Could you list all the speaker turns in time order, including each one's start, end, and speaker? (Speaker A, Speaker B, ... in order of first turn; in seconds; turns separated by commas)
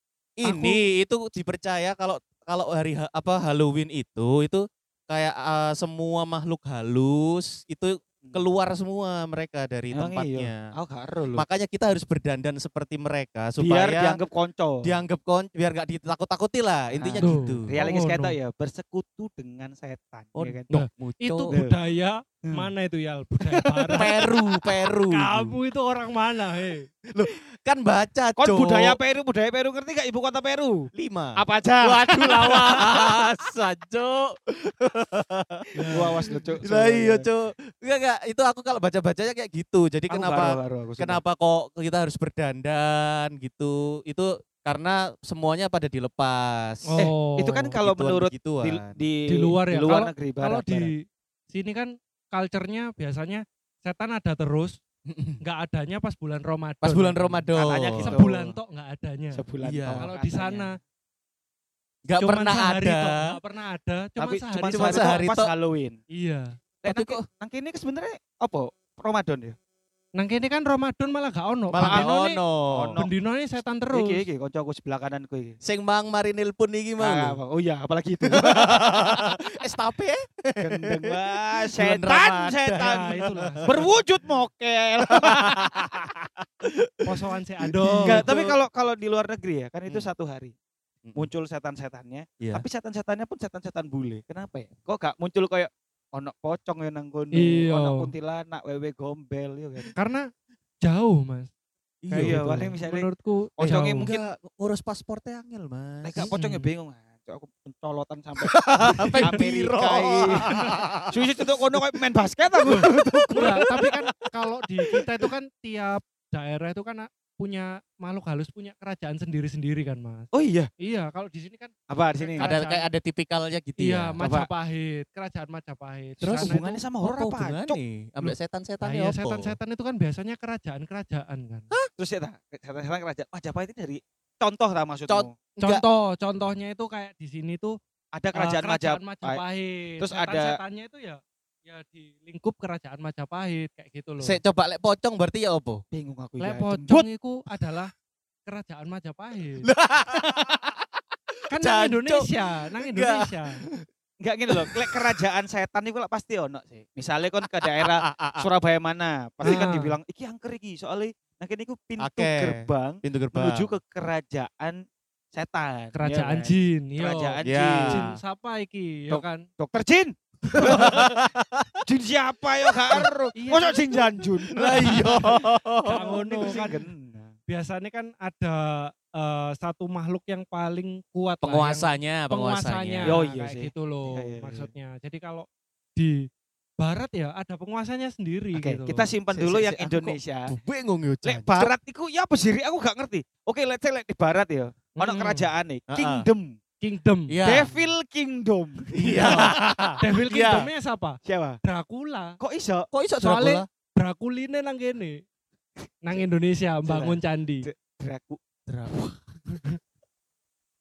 Speaker A: 0.4-10.7, Speaker B: 0.4-0.8, Speaker B: 9.9-11.4, Speaker A: 11.3-14.2, Speaker B: 13.6-15.0, Speaker A: 14.8-17.8, Speaker B: 16.9-20.8, Speaker C: 17.2-18.4, Speaker A: 20.4-21.6, Speaker C: 20.7-26.9, Speaker B: 21.5-21.8, Speaker B: 23.5-24.2, Speaker A: 23.9-25.6, Speaker A: 27.1-29.0, Speaker B: 28.4-33.2, Speaker A: 30.9-47.1, Speaker C: 35.8-36.6, Speaker B: 35.9-37.3, Speaker B: 40.1-41.2, Speaker C: 46.9-47.8, Speaker B: 47.0-50.9, Speaker A: 47.8-49.0, Speaker C: 49.3-54.8, Speaker A: 55.1-55.4, Speaker C: 55.4-57.5, Speaker A: 56.8-58.3, Speaker B: 57.5-58.6, Speaker C: 58.0-59.4, Speaker B: 59.3-60.8, Speaker A: 59.6-60.1, Speaker C: 60.0-60.8, Speaker A: 62.1-63.4, Speaker C: 62.2-65.2, Speaker B: 64.2-66.0, Speaker A: 64.7-65.5, Speaker C: 66.1-66.5, Speaker B: 66.8-69.6, Speaker A: 66.9-67.2, Speaker C: 70.2-72.4, Speaker A: 71.7-73.0, Speaker B: 71.8-72.1, Speaker B: 72.7-73.1, Speaker C: 73.0-74.2, Speaker B: 73.9-75.6, Speaker A: 75.6-77.4, Speaker B: 77.0-79.3, Speaker A: 78.2-83.8, Speaker B: 80.6-86.1, Speaker C: 82.8-83.9, Speaker A: 85.1-86.1, Speaker A: 86.6-87.0, Speaker C: 87.0-88.3, Speaker A: 87.6-88.6, Speaker B: 88.0-90.5, Speaker B: 91.2-99.9, Speaker C: 97.3-98.1, Speaker C: 100.0-100.3, Speaker C: 100.8-101.5, Speaker A: 102.0-102.6, Speaker C: 102.1-104.1, Speaker B: 102.2-104.3, Speaker A: 103.6-106.3, Speaker B: 106.0-113.9, Speaker C: 106.2-106.7, Speaker A: 108.4-111.2, Speaker C: 109.0-109.4, Speaker C: 110.3-110.7, Speaker A: 112.7-113.5, Speaker C: 113.3-120.3, Speaker B: 120.3-120.7, Speaker C: 120.8-122.9, Speaker B: 121.9-122.5, Speaker A: 122.4-124.2, Speaker C: 123.8-126.7, Speaker B: 124.2-124.5, Speaker A: 126.2-129.6, Speaker B: 126.3-127.8, Speaker C: 128.2-131.7, Speaker B: 132.0-135.3, Speaker A: 135.1-135.8, Speaker C: 135.6-137.8, Speaker B: 138.1-139.4, Speaker C: 138.3-144.4, Speaker B: 140.0-140.6, Speaker A: 144.2-145.8, Speaker B: 145.9-147.1, Speaker C: 146.4-147.9, Speaker C: 148.5-149.7, Speaker A: 149.6-150.8, Speaker B: 150.2-150.5, Speaker C: 151.5-153.6, Speaker A: 151.6-153.9, Speaker B: 154.2-164.8, Speaker A: 154.5-155.1, Speaker A: 157.4-158.5, Speaker C: 159.4-160.0, Speaker A: 162.0-163.7, Speaker B: 165.3-168.1, Speaker C: 165.9-169.4, Speaker A: 166.1-166.4, Speaker A: 167.4-168.1, Speaker B: 169.6-171.3, Speaker A: 170.5-171.8, Speaker B: 171.8-177.3, Speaker C: 173.4-173.9, Speaker A: 174.5-176.8, Speaker C: 175.9-176.8, Speaker C: 177.5-186.3, Speaker A: 181.4-183.2, Speaker B: 183.1-184.7, Speaker C: 186.8-189.1, Speaker B: 188.5-190.5, Speaker A: 189.3-191.7, Speaker B: 191.2-196.5, Speaker C: 195.0-195.5, Speaker A: 195.9-196.3, Speaker C: 196.8-197.4, Speaker A: 197.3-197.8, Speaker B: 197.4-199.4, Speaker A: 198.9-200.7, Speaker C: 199.0-202.4, Speaker B: 201.2-201.6, Speaker B: 202.4-202.9, Speaker A: 202.9-203.7, Speaker C: 203.2-205.2, Speaker C: 206.0-207.7, Speaker B: 206.9-208.4, Speaker A: 208.7-209.2